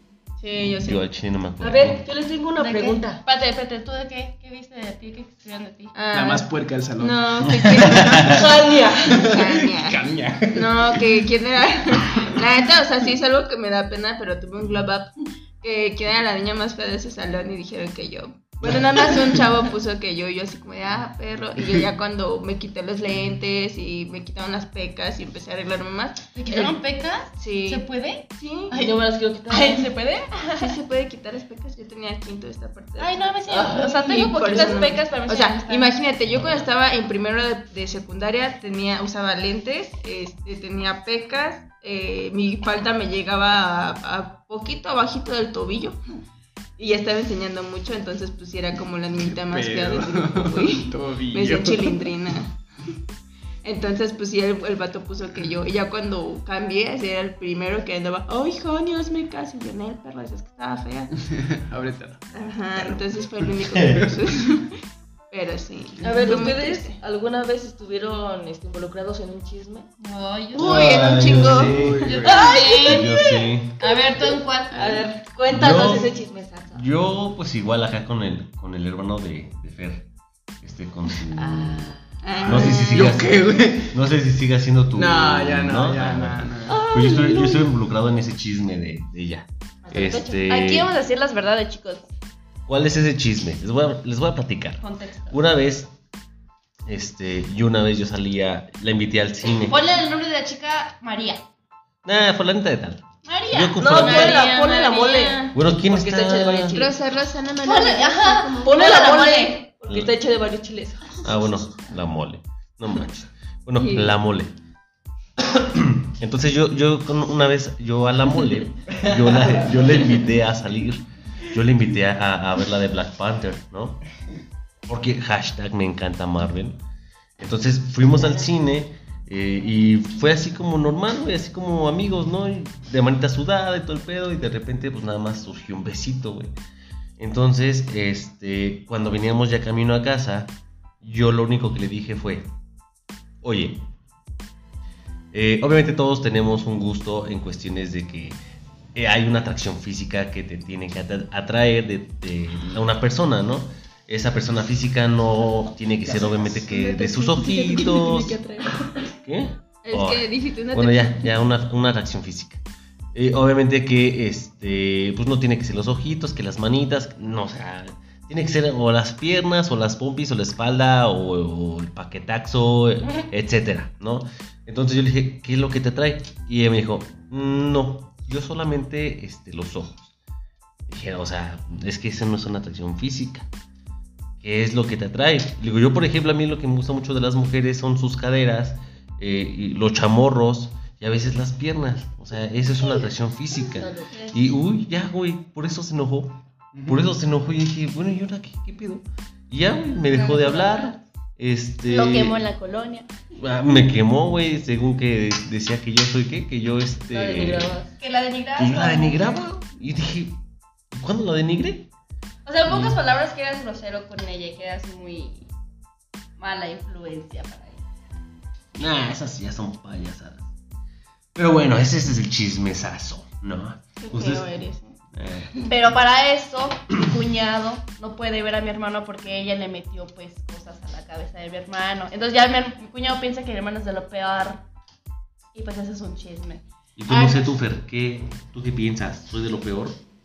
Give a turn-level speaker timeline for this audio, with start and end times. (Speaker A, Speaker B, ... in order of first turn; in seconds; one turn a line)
Speaker A: 0.4-1.0
Speaker B: 0.6-2.0
Speaker C: 1.6-3.2
Speaker D: 2.6-5.9
Speaker A: 5.9-8.5
Speaker E: 6.1-8.4
Speaker B: 7.7-8.4
Speaker C: 8.2-9.3
Speaker E: 9.1-11.0
Speaker A: 9.1-10.0
Speaker A: 10.5-26.7
Speaker D: 26.3-30.7
Speaker A: 27.4-27.8
Speaker A: 28.4-28.7
Speaker C: 28.7-29.9
Speaker A: 30.6-46.0
Speaker D: 33.0-35.9
Speaker C: 33.5-34.1
Speaker A: 46.8-52.5
Speaker E: 49.2-52.1
Speaker A: 53.6-61.1
Speaker E: 61.3-63.0
Speaker A: 62.3-64.8
Speaker B: 63.8-64.1
Speaker A: 65.3-67.0
Speaker C: 66.0-69.9
Speaker D: 70.0-71.4
Speaker A: 70.5-71.7
Speaker B: 70.5-72.2
Speaker E: 71.3-72.5
Speaker D: 72.0-73.2
Speaker C: 72.2-76.9
Speaker B: 72.8-73.8
Speaker D: 73.8-75.0
Speaker B: 75.5-76.1
Speaker B: 76.7-80.1
Speaker B: 80.6-90.9
Speaker C: 81.3-82.0
Speaker A: 82.2-83.2
Speaker D: 82.5-82.8
Speaker E: 82.6-84.0
Speaker E: 84.9-86.8
Speaker C: 86.7-87.7
Speaker C: 89.9-90.5
Speaker D: 90.5-92.1
Speaker B: 92.7-95.9
Speaker D: 94.8-95.4
Speaker B: 96.9-99.8
Speaker D: 99.5-101.4
Speaker B: 102.0-104.4
Speaker D: 103.2-105.5
Speaker C: 103.8-106.9
Speaker B: 105.5-106.8
Speaker A: 106.7-109.0
Speaker D: 107.6-109.6
Speaker C: 108.6-111.3
Speaker B: 111.2-114.5
Speaker B: 115.4-124.0
Speaker E: 119.0-119.8
Speaker B: 124.9-126.8
Speaker B: 127.4-136.5
Speaker B: 137.2-142.5
Speaker B: 143.4-143.9
Speaker B: 145.3-148.4
Speaker B: 148.9-158.4
Speaker A: 156.4-158.9
Speaker B: 159.1-162.6
Speaker A: 159.8-161.3
Speaker B: 163.1-180.1
Speaker B: 180.9-183.5
Speaker B: 184.4-202.4
Speaker C: 193.8-194.0
Speaker E: 196.7-197.1
Speaker D: 200.1-200.9
Speaker D: 201.9-203.1
Speaker B: 203.4-207.7
Speaker C: 207.1-207.9
Speaker D: 208.0-209.4
Speaker B: 208.6-211.9
Speaker D: 212.4-215.5
Speaker B: 212.7-213.0
Speaker D: 216.4-217.8
Speaker B: 218.8-220.4
Speaker B: 221.3-224.6
Speaker A: 224.0-225.0
Speaker B: 225.1-225.7
Speaker D: 225.7-234.7
Speaker D: 235.5-237.4
Speaker B: 237.0-240.0